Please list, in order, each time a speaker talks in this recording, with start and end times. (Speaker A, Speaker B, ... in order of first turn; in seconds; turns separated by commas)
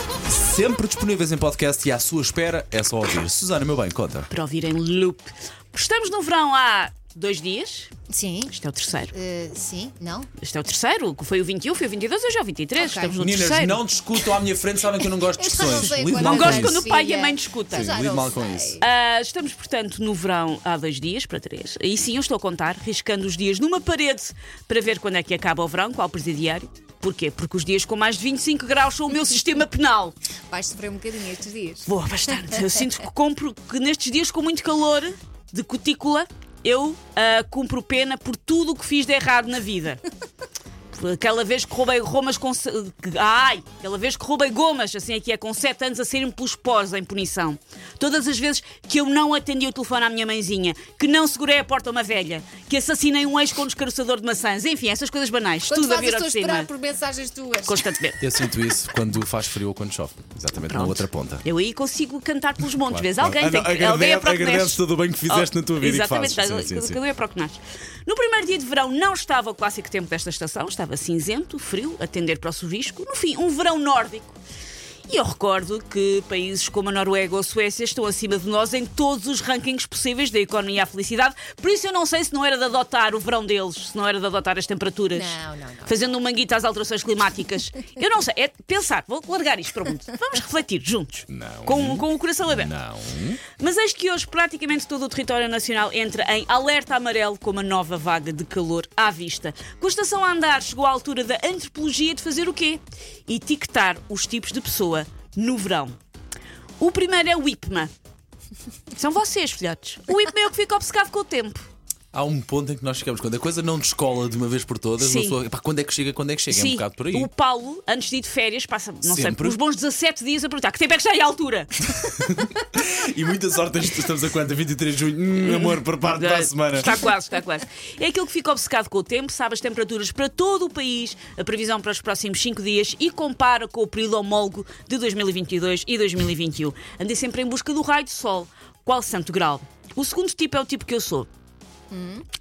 Speaker A: 0.3-4.3, Speaker B: 4.3-7.9, Speaker C: 8.1-8.5, Speaker B: 8.5-9.1, Speaker C: 9.1-10.3, Speaker B: 10.4-13.8, Speaker C: 12.8-13.2, Speaker A: 13.2-16.9, Speaker C: 15.1-18.8, Speaker B: 16.0-18.0, Speaker A: 17.7-18.8, Speaker B: 18.8-30.1, Speaker C: 30.5-31.9, Speaker B: 31.8-40.0, Speaker B: 40.9-56.7, Speaker C: 55.7-57.8, Speaker B: 57.6-58.3, Speaker A: 58.2-61.4, Speaker B: 60.6-74.4, Speaker A: 62.8-67.0, Speaker B: 75.1-92.7, Speaker C: 85.1-86.0, Speaker A: 91.3-93.4, Speaker B: 93.6-106.0, Speaker B: 106.8-107.9, Speaker B: 108.9-111.7, Speaker A: 112.1-117.3, Speaker B: 115.0-115.4, Speaker B: 116.5-121.8, Speaker A: 119.0-119.6, Speaker A: 121.8-127.0, Speaker B: 125.3-141.3, Speaker C: 141.9-142.2